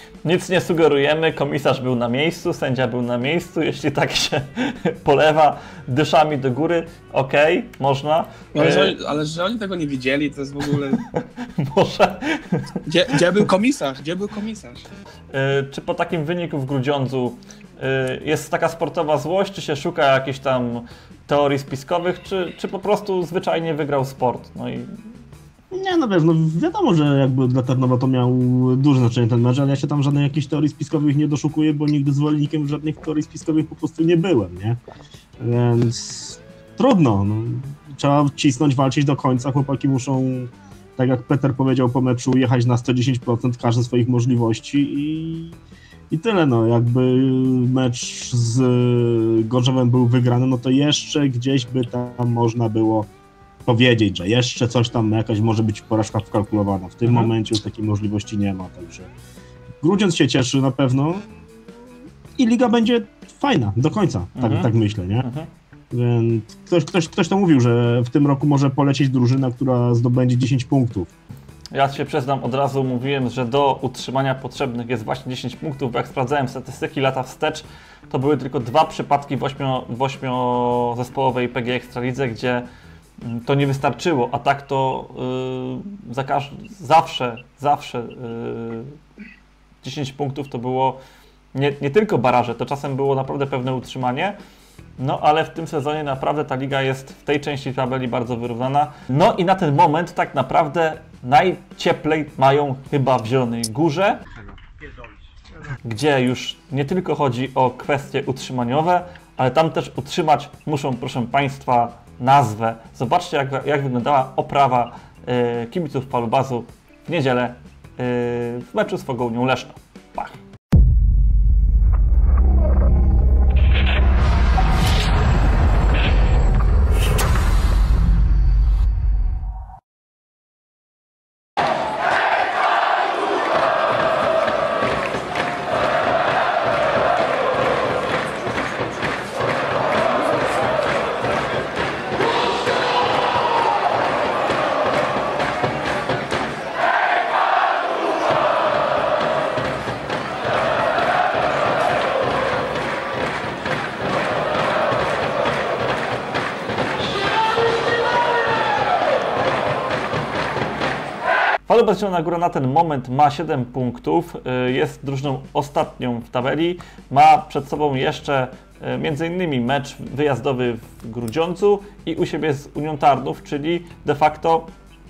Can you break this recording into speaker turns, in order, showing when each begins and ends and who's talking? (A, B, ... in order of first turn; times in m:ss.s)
0:00.2-0:08.9 A
0:08.6-0:11.0 B
0:11.2-0:12.8 A
0:12.9-0:14.9 B
0:15.3-0:24.9 A
0:25.7-0:34.8 C
0:35.4-0:45.6 C
0:46.1-0:53.1 C
0:53.6-0:59.1 C
0:57.0-0:57.3 A
0:59.8-1:01.3 C
1:02.4-1:05.2 C
1:04.4-1:04.7 A
1:05.2-1:05.5 A
1:05.9-1:11.1 C
1:11.7-1:22.7 A
1:23.2-1:29.0 A
1:29.8-1:31.0 A
1:31.5-1:34.4 A
1:35.0-1:44.2 A
1:45.8-2:00.4 A
2:41.7-2:54.7 A